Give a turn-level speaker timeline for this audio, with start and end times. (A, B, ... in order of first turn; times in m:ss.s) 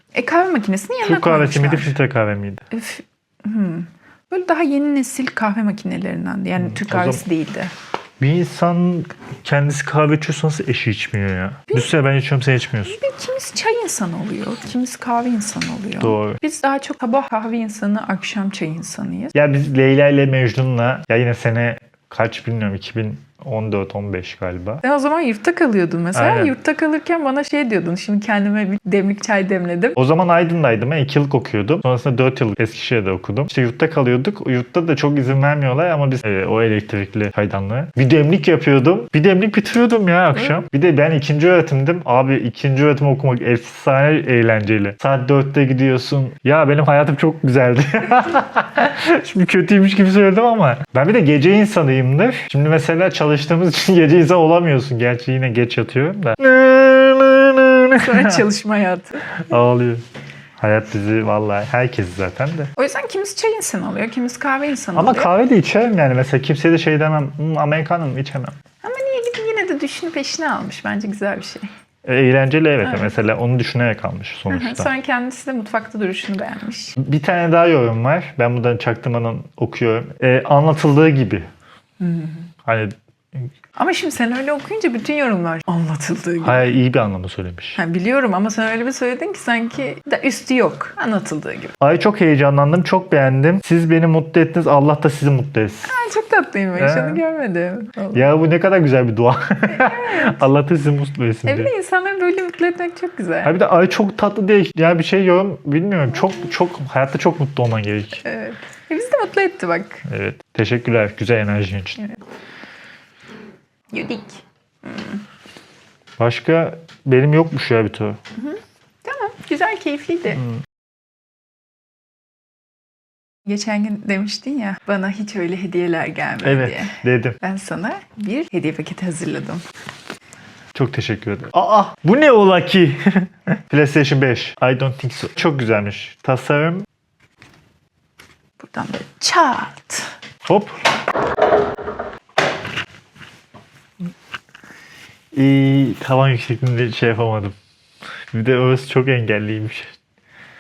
0:00.1-0:01.9 A
0:01.0-0:02.6 B
0:02.7-0:07.7 A
0:06.6-0:07.2 B
0:08.2-0:13.0 B
0:12.8-0:19.4 A
0:16.0-0:16.4 B
0:19.4-0:24.8 B
0:24.8-0:30.0 A
0:26.2-0:26.5 B
0:30.0-0:58.4 B
0:58.0-0:59.4 A
0:59.4-1:00.0 B
1:00.6-1:02.7 B
1:02.8-1:05.3 A
1:05.0-1:08.6 B
1:08.8-1:11.7 A
1:12.0-1:14.9 B
1:12.8-1:13.2 A
1:14.5-1:17.0 A
1:17.0-1:21.5 B
1:22.0-1:22.5 A
1:22.7-1:23.5 B
1:23.8-1:26.7 A
1:26.4-1:27.8 B
1:27.8-1:31.8 A
1:31.8-1:36.0 B
1:35.9-1:38.2 A
1:36.8-1:37.2 B
1:38.1-1:41.7 B
1:39.7-1:40.4 A
1:41.5-1:43.5 A
1:43.4-1:48.2 B
1:48.2-1:50.0 A
1:50.1-1:52.0 B
1:52.0-1:52.2 A
1:53.9-1:55.2 A
1:56.2-1:58.2 B
1:58.4-2:00.4 A
2:03.5-2:09.6 A
2:06.4-2:07.4 B
2:10.7-2:16.9 B
2:18.6-2:20.1 A
2:20.5-2:20.8 B
2:25.3-2:27.6 B
2:28.3-2:29.9 B